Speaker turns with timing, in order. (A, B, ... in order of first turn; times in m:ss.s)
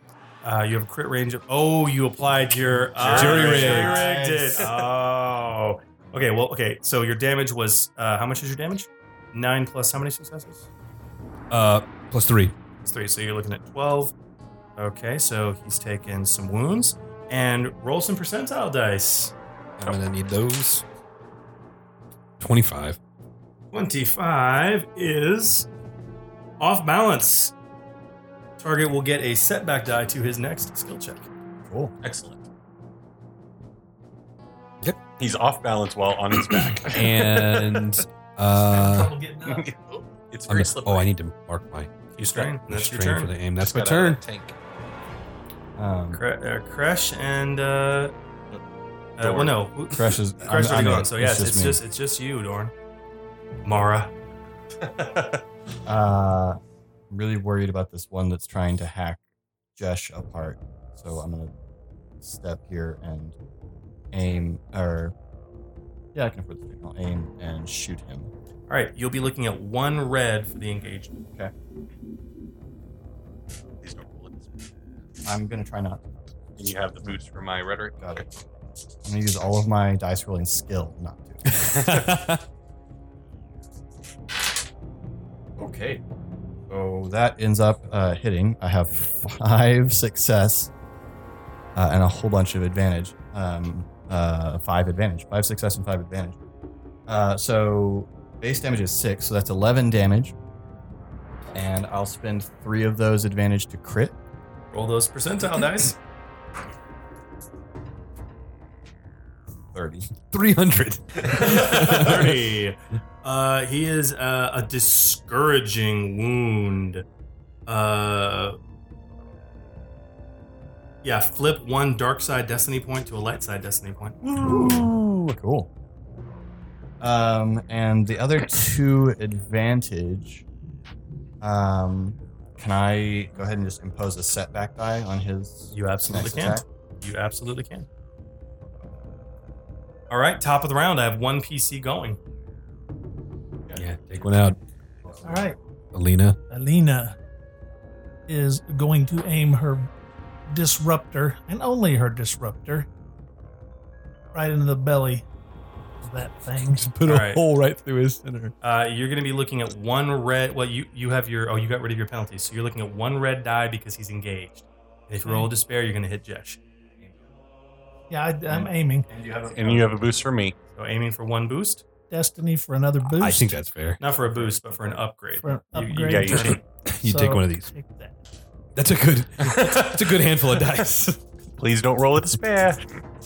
0:00.4-0:10.7 A
0:02.9-0:04.7 B
0:03.0-0:04.0 C
0:11.5-0:12.5 C
0:12.8-0:14.1 A
0:14.8-0:19.3 A
0:19.8-0:20.8 C
0:22.4-0:23.0 C
0:23.7-0:25.7 A
0:26.6-0:27.5 A
0:28.6-0:31.3 A
0:31.6-0:31.9 B
0:32.0-0:32.4 D
0:35.2-0:38.0 D
0:36.9-0:39.2 C
0:38.7-0:39.7 E
0:39.4-0:41.1 D
0:40.5-0:42.0 C
0:42.2-0:43.3 A
0:42.2-0:42.5 D
0:42.6-0:44.2 C
0:43.6-0:44.6 D
0:45.8-0:46.2 B
0:46.1-0:48.1 A
0:49.2-0:52.7 A
0:49.2-0:49.6 D
0:49.9-0:51.8 B
0:53.6-0:54.1 A
0:54.8-0:55.4 D
0:55.8-0:59.2 B
0:59.8-1:01.5 B
1:02.2-1:03.4 B
1:04.1-1:05.1 B
1:06.1-1:08.3 B
1:08.7-1:11.2 A
1:13.8-1:14.5 D
1:15.2-1:16.0 B
1:16.6-1:18.2 D
1:18.0-1:18.3 B
1:19.0-1:21.5 B
1:21.5-1:22.4 C
1:25.6-1:26.0 B
1:26.7-1:30.7 B
1:31.7-1:36.4 B
1:37.1-1:40.3 B
1:41.5-1:44.1 B
1:44.7-1:46.0 A
1:49.7-1:50.1 B
1:50.3-1:52.4 C
1:51.4-1:57.0 A
1:51.7-1:52.0 B
1:57.6-1:58.6 A
2:01.0-2:04.9 A
2:04.4-2:05.7 B
2:07.0-2:10.4 B
2:11.4-2:16.6 B
2:15.7-2:17.9 A
2:20.1-2:22.2 A
2:23.7-2:24.6 C
2:25.0-2:25.4 B
2:25.2-2:25.6 E
2:25.9-2:26.4 C
2:26.5-2:27.2 E
2:28.3-2:29.9 E
2:30.5-2:32.9 E
2:34.3-2:35.2 E
2:36.0-2:36.9 E
2:36.7-2:38.5 C
2:37.0-2:37.4 A
2:38.6-2:46.6 A
2:45.2-2:45.5 E
2:48.1-2:49.1 E
2:48.6-2:50.0 B
2:49.5-2:50.5 D
2:50.7-2:51.8 A
2:52.1-2:53.6 E
2:53.1-2:54.0 C
2:54.0-2:56.6 A
2:55.4-2:58.2 E
2:56.1-2:56.6 D
2:56.8-2:57.7 C
2:58.8-3:01.2 C
2:59.4-3:00.7 D
3:01.6-3:03.0 D